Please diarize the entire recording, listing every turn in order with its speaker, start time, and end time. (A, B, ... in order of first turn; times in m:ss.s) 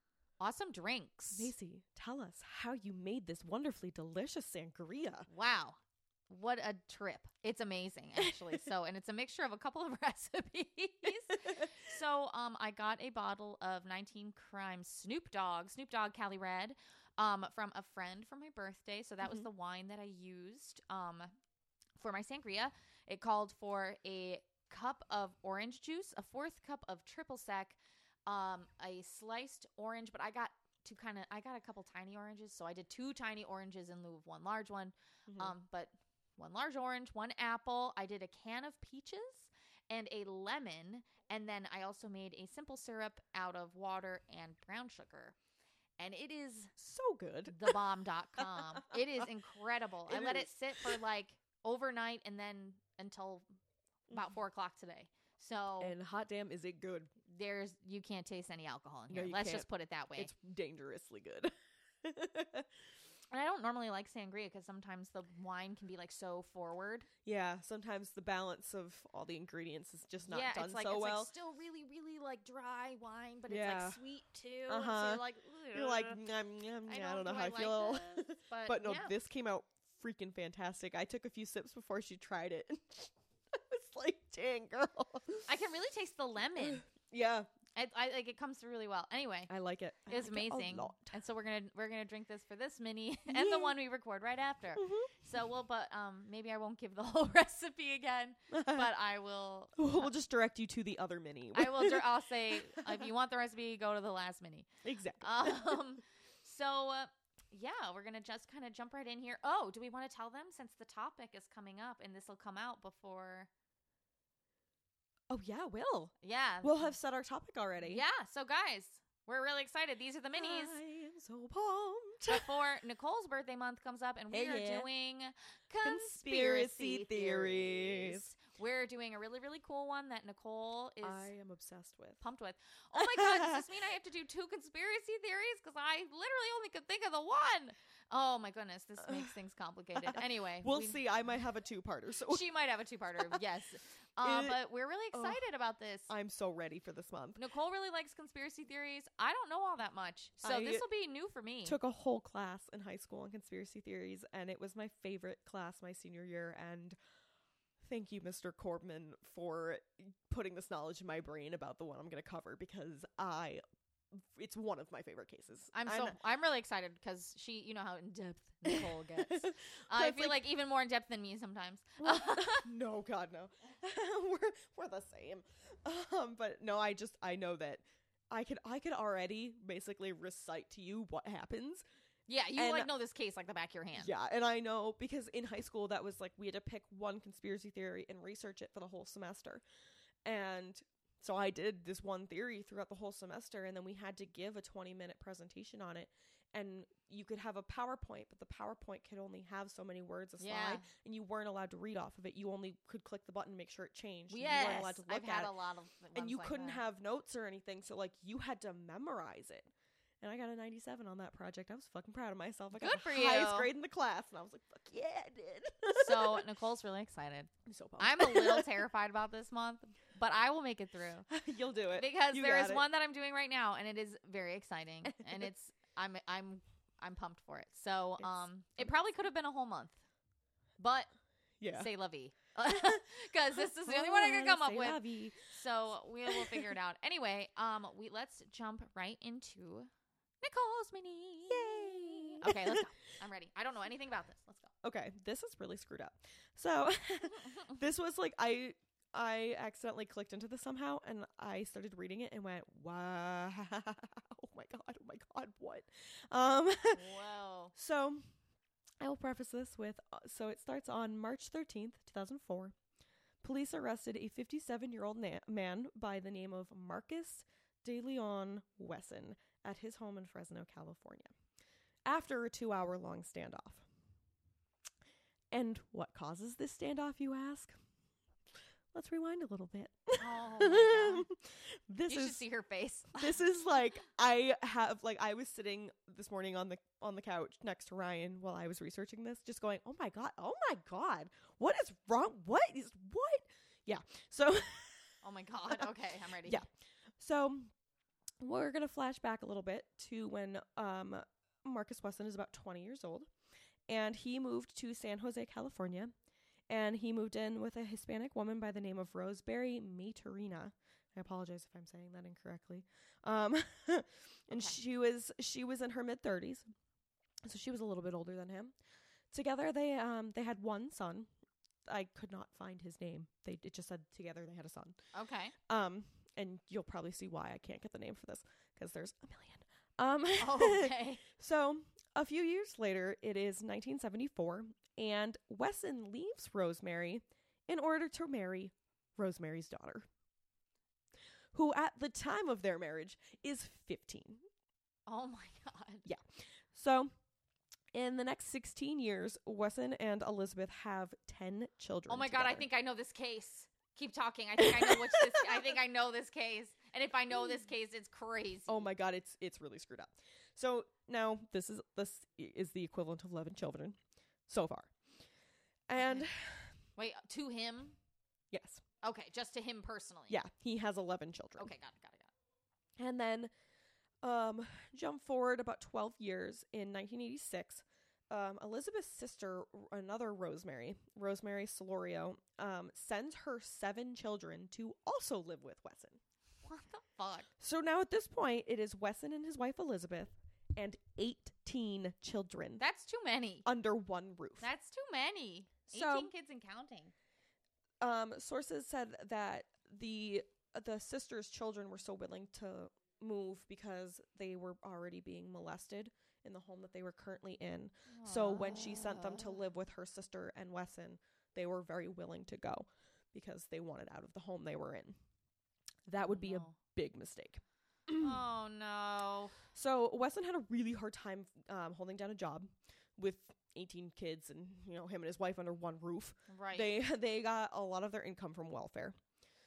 0:00.4-0:01.5 A
0:01.3-0:05.3 B
0:05.3-0:05.8 A
0:06.3-0:21.3 A
0:22.0-0:45.4 A
0:35.3-0:35.5 B
0:46.0-0:46.7 A
0:46.8-0:47.8 B
0:47.5-0:53.4 A
0:48.6-0:49.2 B
0:50.1-0:51.0 B
0:54.1-0:55.9 A
0:55.8-0:57.1 B
0:57.2-1:00.3 A
0:59.1-1:01.5 B
1:02.0-1:02.7 B
1:03.3-1:07.1 A
1:07.2-1:11.3 B
1:10.2-1:16.2 A
1:13.5-1:14.0 B
1:14.7-1:25.5 B
1:16.8-1:19.1 A
1:25.5-1:26.8 A
1:26.6-1:27.5 B
1:27.7-1:29.5 A
1:29.5-1:31.2 B
1:30.1-1:40.1 A
1:33.3-1:33.8 B
1:34.8-1:35.1 B
1:38.5-1:38.9 B
1:39.8-1:42.0 B
1:41.5-1:44.7 A
1:42.8-1:43.1 B
1:44.8-1:45.8 B
1:45.2-1:53.5 A
1:55.3-1:58.0 B
1:56.2-1:56.9 A
1:57.8-2:00.8 A
2:00.3-2:02.5 B
2:02.3-2:11.3 A
2:04.3-2:04.9 B
2:05.8-2:08.3 B
2:11.0-2:12.2 B
2:12.2-2:21.0 A
2:12.9-2:13.6 B
2:19.0-2:19.3 B
2:20.0-2:22.4 B
2:22.3-2:26.1 A
2:24.2-2:24.6 B
2:25.1-2:25.4 B
2:26.1-2:27.4 B
2:27.4-2:31.8 A
2:30.4-2:30.8 B
2:31.6-2:37.0 B
2:37.8-2:43.6 B
2:44.1-2:46.2 B
2:45.7-2:52.7 A
2:48.7-2:50.5 B
2:52.0-3:01.8 B
3:02.3-3:04.1 A
3:02.6-3:02.9 B
3:04.0-3:09.6 B
3:10.2-3:25.5 B
3:20.4-3:20.9 A
3:24.3-3:26.8 A
3:26.1-3:29.7 B
3:30.2-3:36.4 B
3:32.7-3:33.7 A
3:35.9-3:41.3 A
3:37.6-3:38.7 B
3:41.3-3:42.8 B
3:41.9-3:50.0 A
3:45.0-3:45.5 B
3:48.2-3:48.9 B
3:50.8-3:51.1 A
3:51.6-3:51.9 B
3:51.7-3:59.9 A
3:52.7-3:53.0 B
3:53.8-3:55.5 B
3:56.3-3:56.7 B
4:00.4-4:04.7 A
4:01.5-4:02.9 B
4:04.8-4:17.0 B
4:16.9-4:17.7 A
4:17.7-4:18.2 B
4:19.0-4:22.7 B
4:23.4-4:31.3 B
4:32.0-4:33.8 B
4:35.5-4:37.7 B
4:38.9-4:42.4 B
4:40.2-4:41.3 A
4:42.1-4:43.4 A
4:43.1-4:55.0 B
4:55.2-4:56.6 A
4:57.2-4:57.7 B
4:58.4-5:03.3 B
5:03.9-5:06.1 B
5:06.7-5:16.6 B
5:17.4-5:18.7 B
5:19.3-5:21.3 B
5:21.8-5:25.0 B
5:25.1-5:25.5 A
5:25.6-5:40.1 B
5:30.4-5:31.2 A
5:41.5-5:44.4 B
5:45.0-5:46.0 A
5:46.0-5:47.1 B
5:47.9-5:52.6 B
5:52.1-5:58.8 A
5:54.6-5:55.7 B
5:58.7-6:04.9 B
6:05.9-6:06.7 B
6:06.0-6:06.3 A
6:07.0-6:08.0 A
6:08.5-6:08.8 B
6:09.0-6:10.4 A
6:10.3-6:11.7 B
6:11.6-6:12.3 A
6:13.0-6:13.5 B
6:14.2-6:26.2 B
6:26.6-6:27.5 A
6:27.6-6:32.8 B
6:32.8-6:33.6 A
6:33.6-6:34.7 B
6:34.6-6:37.1 A
6:35.9-6:36.3 B
6:38.0-6:55.1 B
6:48.1-6:49.6 A
6:56.1-6:58.4 B
6:56.2-6:56.7 A
6:58.2-6:59.6 A
6:59.7-7:09.1 B
7:06.5-7:06.9 A